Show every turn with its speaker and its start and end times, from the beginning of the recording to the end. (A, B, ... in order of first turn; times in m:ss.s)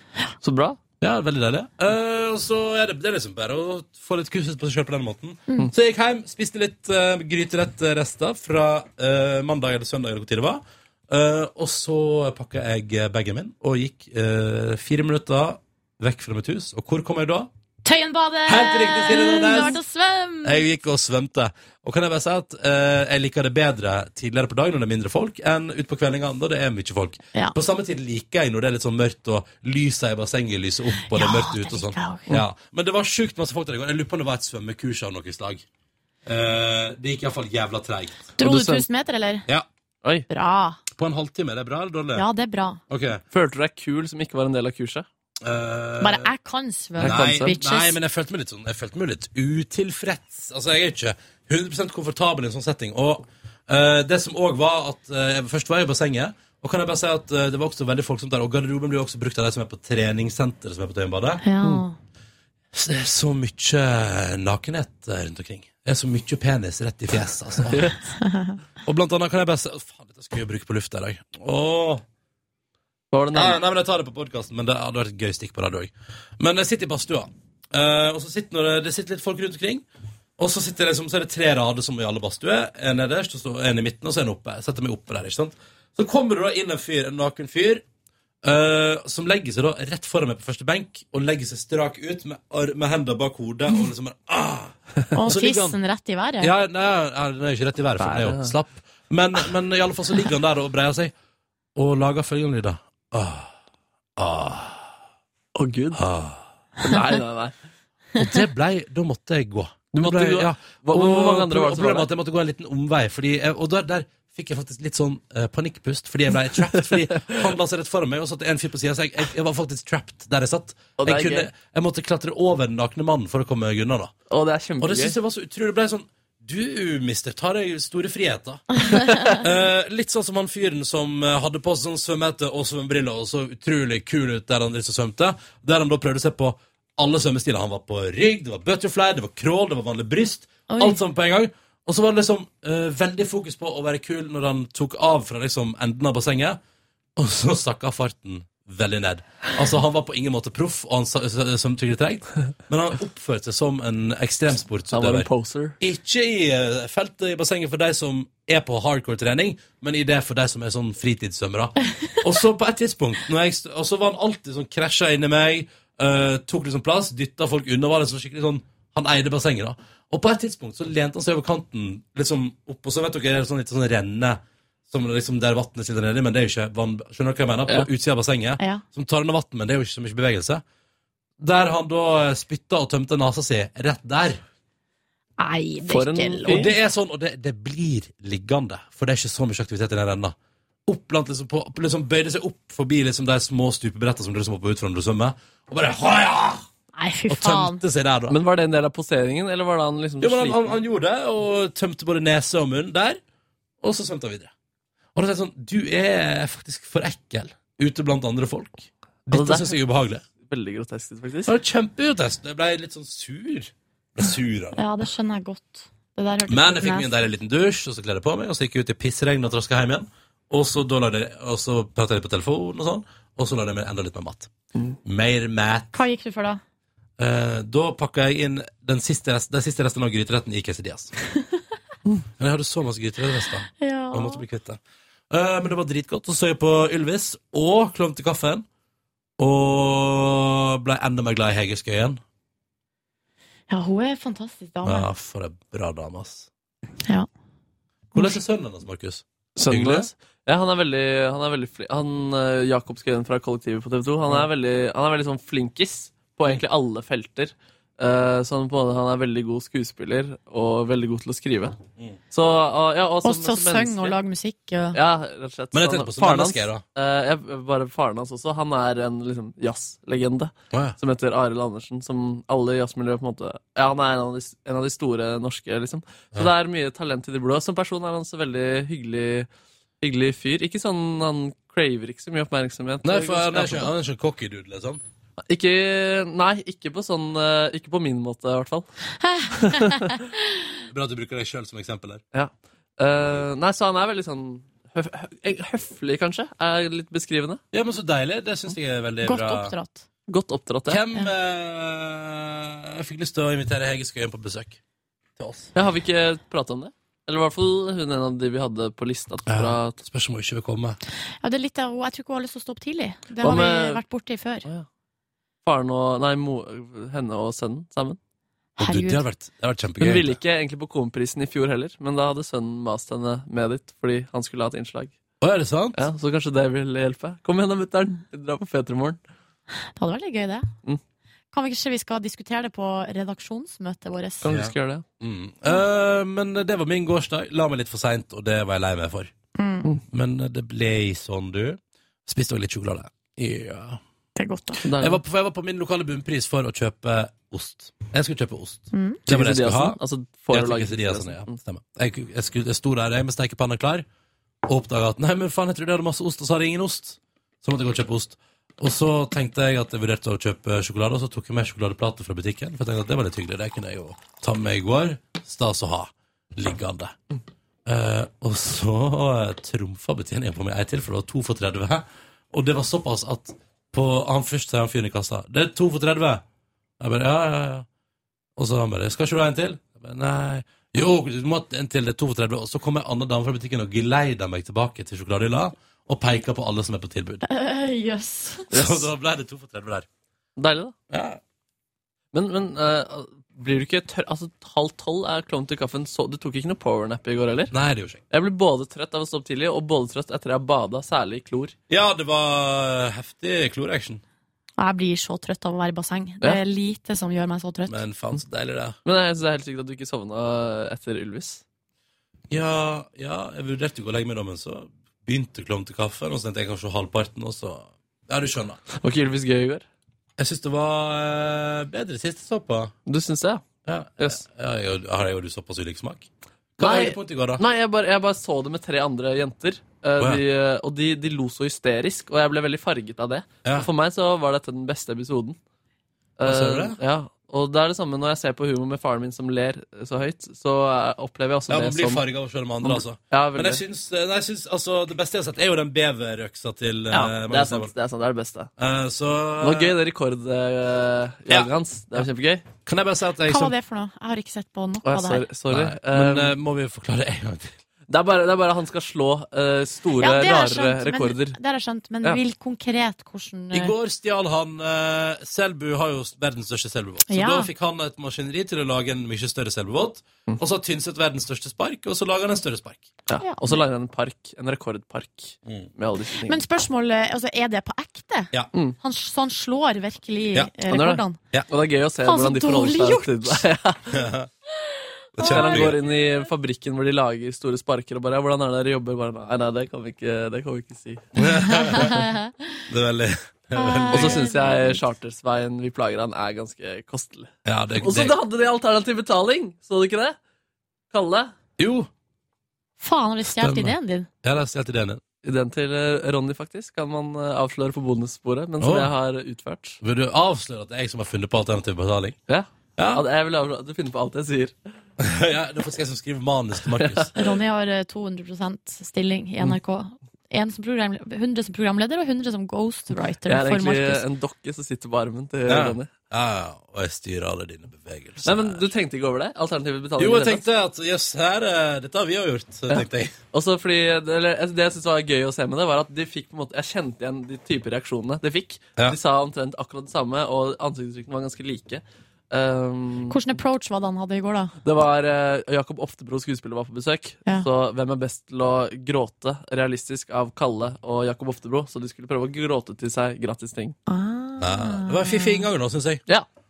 0:00.4-0:00.8 A
0:01.0-0:17.5 B
0:17.8-0:20.6 C
0:18.5-0:19.8 B
0:20.4-0:35.6 B
0:31.1-0:32.3 C
0:36.3-0:38.3 B
0:38.4-0:39.5 C
0:38.4-0:38.8 A
0:40.3-0:40.8 C
0:41.0-0:42.3 B
0:42.2-0:42.8 C
0:42.9-0:43.2 B
0:43.3-0:45.1 A
0:45.4-0:46.3 B
0:46.0-0:48.0 C
0:47.0-0:47.6 A
0:47.0-1:01.4 B
1:01.4-1:02.0 C
1:02.7-1:07.9 B
1:07.7-1:08.0 A
1:08.2-1:08.6 C
1:08.8-1:12.0 B
1:13.1-1:13.6 A
1:13.3-1:19.8 B
1:20.4-1:27.8 B
1:28.4-1:35.8 B
1:35.2-1:36.5 C
1:36.4-1:41.1 B
1:38.0-1:38.6 A
1:41.8-1:43.5 B
1:44.2-1:44.9 B
1:45.6-1:46.0 A
1:45.9-1:46.5 B
1:46.8-1:47.5 A
1:48.2-2:04.1 B
1:49.9-1:52.1 A
1:56.7-1:57.5 A
2:01.0-2:01.5 A
2:04.3-2:05.2 A
2:04.8-2:26.6 B
2:20.7-2:21.0 C
2:27.2-3:00.6 B
2:34.9-2:35.8 A
3:01.4-3:04.4 B
3:05.4-3:06.7 C
3:05.8-3:06.7 A
3:06.5-3:10.4 B
3:10.9-3:16.7 B
3:17.0-3:17.8 C
3:17.3-3:18.4 B
3:18.3-3:20.7 A
3:20.2-3:23.2 B
3:23.8-3:24.5 B
3:25.2-3:30.2 B
3:29.3-3:29.8 A
3:30.4-3:31.5 A
3:31.5-3:34.8 B
3:34.8-3:37.2 C
3:36.5-3:44.5 B
3:45.0-3:46.0 B
3:45.9-3:46.6 C
3:47.2-3:51.1 B
3:52.4-3:58.7 B
3:53.8-3:54.4 C
3:59.4-4:02.2 B
4:03.7-4:05.1 C
4:04.8-4:06.5 B
4:08.1-4:10.1 B
4:09.6-4:21.8 A
4:22.3-4:24.2 A
4:23.2-4:25.0 C
4:24.9-4:39.5 A
4:25.7-4:26.8 B
4:30.7-4:31.0 B
4:40.0-4:43.9 A
4:43.0-4:45.0 B
4:45.5-4:48.9 A
4:49.2-4:50.2 C
4:49.5-4:50.1 A
4:50.9-4:52.2 B
4:52.3-4:57.6 A
4:57.7-4:59.8 B
4:59.2-5:00.0 C
5:00.3-5:01.0 A
5:00.9-5:04.8 B
5:05.4-5:05.7 B
5:05.8-5:10.0 A
5:09.5-5:11.0 B
5:11.4-5:14.7 C
5:13.4-5:14.0 A
5:15.6-5:18.2 A
5:18.8-5:20.4 B
5:18.8-5:19.2 C
5:20.0-5:25.2 A
5:25.4-5:26.0 B
5:26.0-5:29.2 A
5:30.0-5:30.7 C
5:31.5-5:34.5 C
5:34.4-5:35.0 A
5:34.5-5:39.3 B
5:39.6-5:39.9 C
5:40.1-5:44.0 B
5:44.4-5:44.8 C
5:44.8-5:45.2 A
5:45.0-5:50.0 B
5:48.9-5:49.2 C
5:49.3-5:51.6 A
5:50.5-5:54.1 B
5:54.6-6:07.2 B
6:07.9-6:16.4 B
6:17.0-6:17.9 B
6:18.6-6:27.4 B
6:27.4-6:28.7 C
6:28.7-6:29.1 A
6:28.7-6:30.1 B
6:30.6-6:31.0 A
6:31.1-6:31.4 B
6:32.3-6:37.7 A
6:37.7-6:38.2 B
6:38.3-6:41.8 A
6:41.9-6:44.2 B
6:44.8-6:48.0 C
6:47.9-6:49.0 B
6:49.0-6:51.6 A
6:52.5-6:58.8 B
6:58.9-6:59.8 A
7:00.4-7:03.0 B
7:03.1-7:03.6 A
7:03.8-7:07.6 B
7:06.8-7:15.6 A
7:16.4-7:22.2 A
7:16.4-7:17.0 B
7:21.7-7:27.9 B
7:22.8-7:23.8 A
7:27.1-7:28.7 A
7:28.8-7:30.0 B
7:29.6-7:32.7 A
7:31.5-7:32.3 B
7:32.8-7:33.8 B
7:33.5-7:35.5 C
7:35.0-7:36.6 A
7:35.7-7:37.8 B
7:38.1-7:41.6 A
7:40.2-7:44.0 C
7:43.7-7:53.2 B
7:47.3-7:47.7 C
7:53.3-7:56.6 A
7:53.4-7:53.8 C
7:56.5-8:01.4 C
8:00.9-8:04.2 A
8:02.2-8:03.6 C
8:04.1-8:04.5 B
8:05.4-8:06.0 B
8:05.4-8:05.9 C
8:05.4-8:11.4 A
8:11.4-8:12.2 B
8:11.7-8:12.7 C
8:12.9-8:14.5 B
8:13.8-8:15.0 C
8:14.1-8:20.4 A
8:17.6-8:18.4 B
8:21.1-8:21.5 A
8:21.8-8:22.1 B
8:23.0-8:24.3 C
8:23.5-8:25.2 B
8:25.4-8:30.0 A
8:28.8-8:29.1 B
8:30.0-8:32.4 B
8:32.5-8:34.8 A
8:33.0-8:33.2 B
8:35.2-8:37.3 B
8:36.9-8:37.3 A
8:37.4-8:44.2 C
8:43.4-8:46.1 A
8:45.7-8:48.9 B
8:48.4-8:50.6 A
8:50.2-8:53.4 B
8:52.9-9:03.4 A
9:03.3-9:04.7 C
9:04.8-9:14.0 A
9:14.1-9:15.7 C
9:14.6-9:16.2 B